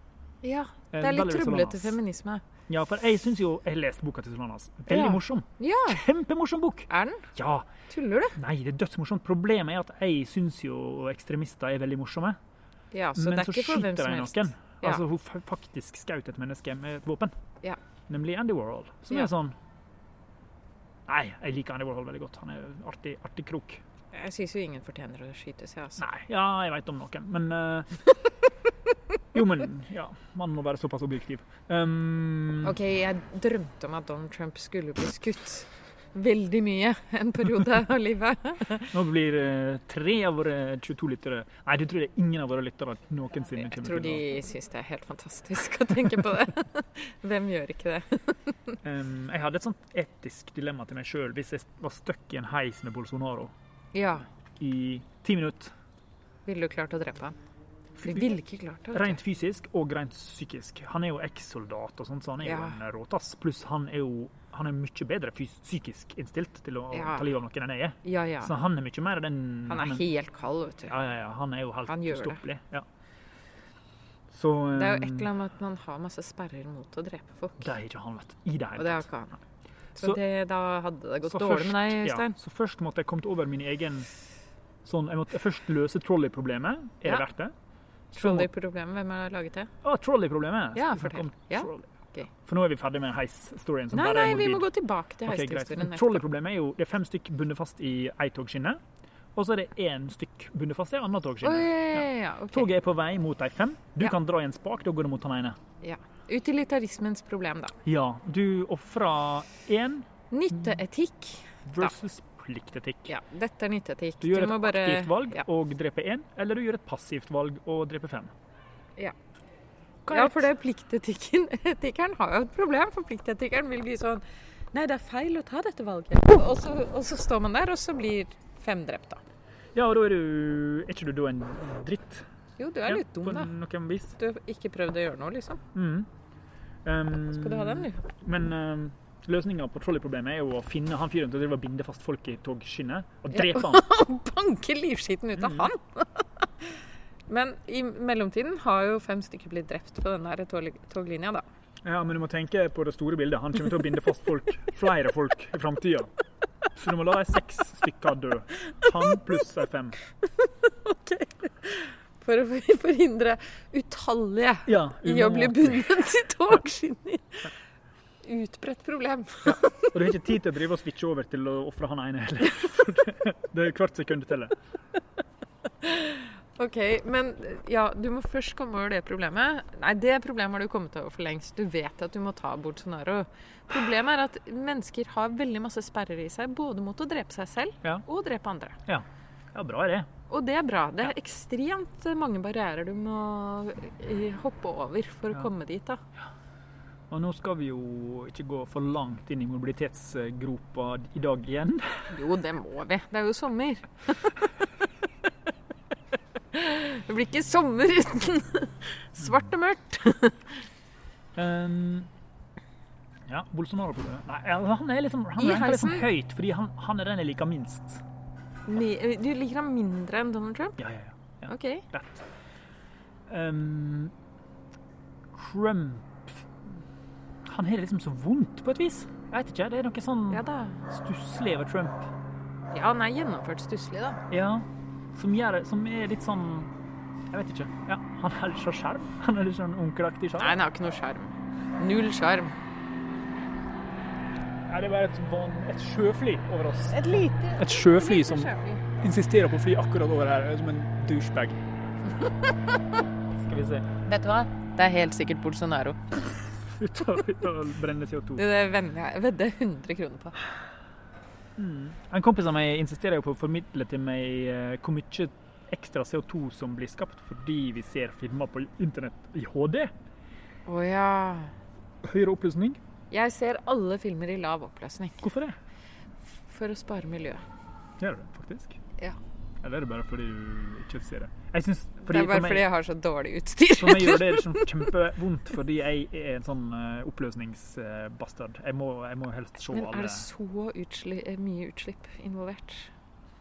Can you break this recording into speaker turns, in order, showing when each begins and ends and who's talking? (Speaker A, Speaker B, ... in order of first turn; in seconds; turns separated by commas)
Speaker A: 0.4-2.4, Speaker B: 0.9-2.0, Speaker B: 2.7-7.7, Speaker A: 4.9-6.0, Speaker A: 6.9-7.3, Speaker A: 7.9-8.4, Speaker B: 8.4-12.4, Speaker A: 12.9-15.0, Speaker B: 13.2-17.3, Speaker B: 18.1-19.6, Speaker B: 21.1-23.8, Speaker A: 24.1-26.1, Speaker B: 26.0-28.0, Speaker B: 29.3-32.8, Speaker A: 32.6-38.9, Speaker B: 38.9-44.2, Speaker A: 43.6-48.8, Speaker B: 48.8-53.5, Speaker A: 53.9-54.3, Speaker B: 54.6-55.7, Speaker A: 56.5-57.4, Speaker B: 58.0-58.4, Speaker A: 58.0-59.2, Speaker B: 58.9-70.0, Speaker A: 62.4-62.8, Speaker A: 66.9-67.3, Speaker A: 68.0-68.5, Speaker A: 69.7-71.0, Speaker B: 70.9-72.9, Speaker A: 71.9-72.4, Speaker B: 74.3-75.3, Speaker A: 74.7-77.7, Speaker B: 77.6-79.0, Speaker A: 78.8-79.4, Speaker A: 80.0-82.4, Speaker B: 81.2-84.1, Speaker B: 84.8-87.5, Speaker B: 88.1-88.5, Speaker A: 88.2-89.7, Speaker B: 89.8-91.9, Speaker A: 90.8-92.3, Speaker B: 92.4-94.7, Speaker A: 93.9-96.2, Speaker B: 95.3-98.8, Speaker B: 99.3-105.6, Speaker A: 101.4-102.7, Speaker A: 105.8-107.8, Speaker B: 107.8-110.8, Speaker A: 110.3-111.9, Speaker B: 111.7-113.1, Speaker A: 113.1-115.4, Speaker B: 114.2-118.3, Speaker B: 120.0-120.5, Speaker A: 120.1-129.2, Speaker B: 129.8-132.3, Speaker A: 132.6-133.5, Speaker B: 132.9-134.2, Speaker A: 134.2-135.6, Speaker B: 135.7-136.1, Speaker B: 136.8-143.9, Speaker A: 137.3-138.1, Speaker A: 143.3-146.7, Speaker B: 145.4-145.7, Speaker A: 147.3-151.4, Speaker B: 151.8-156.1, Speaker B: 156.7-160.0, Speaker A: 160.2-167.5, Speaker B: 164.7-166.0, Speaker A: 168.2-170.1, Speaker B: 169.4-174.6, Speaker A: 175.8-188.8, Speaker B: 188.9-190.1, Speaker A: 190.3-196.0, Speaker B: 197.1-202.2, Speaker A: 202.1-204.4, Speaker A: 206.5-210.7, Speaker B: 211.3-212.1, Speaker B: 213.3-218.0, Speaker A: 215.4-216.1, Speaker A: 218.7-220.8, Speaker B: 220.8-222.3, Speaker A: 221.5-221.9, Speaker B: 223.3-224.1, Speaker B: 225.3-226.8, Speaker B: 227.4-232.1, Speaker A: 230.3-230.8, Speaker A: 232.7-234.2, Speaker B: 234.3-236.7, Speaker B: 237.3-240.6, Speaker A: 240.4-242.6, Speaker B: 244.7-251.6, Speaker A: 246.9-248.8, Speaker B: 253.4-253.9, Speaker A: 254.1-256.2, Speaker B: 256.6-258.5, Speaker A: 258.4-260.4, Speaker B: 261.6-269.9, Speaker A: 270.7-271.5, Speaker B: 272.0-272.8, Speaker A: 273.1-275.2, Speaker B: 275.2-275.6, Speaker A: 276.5-277.4, Speaker B: 278.0-278.8, Speaker B: 279.6-282.7, Speaker A: 282.0-284.9, Speaker B: 283.8-290.3, Speaker A: 289.7-292.9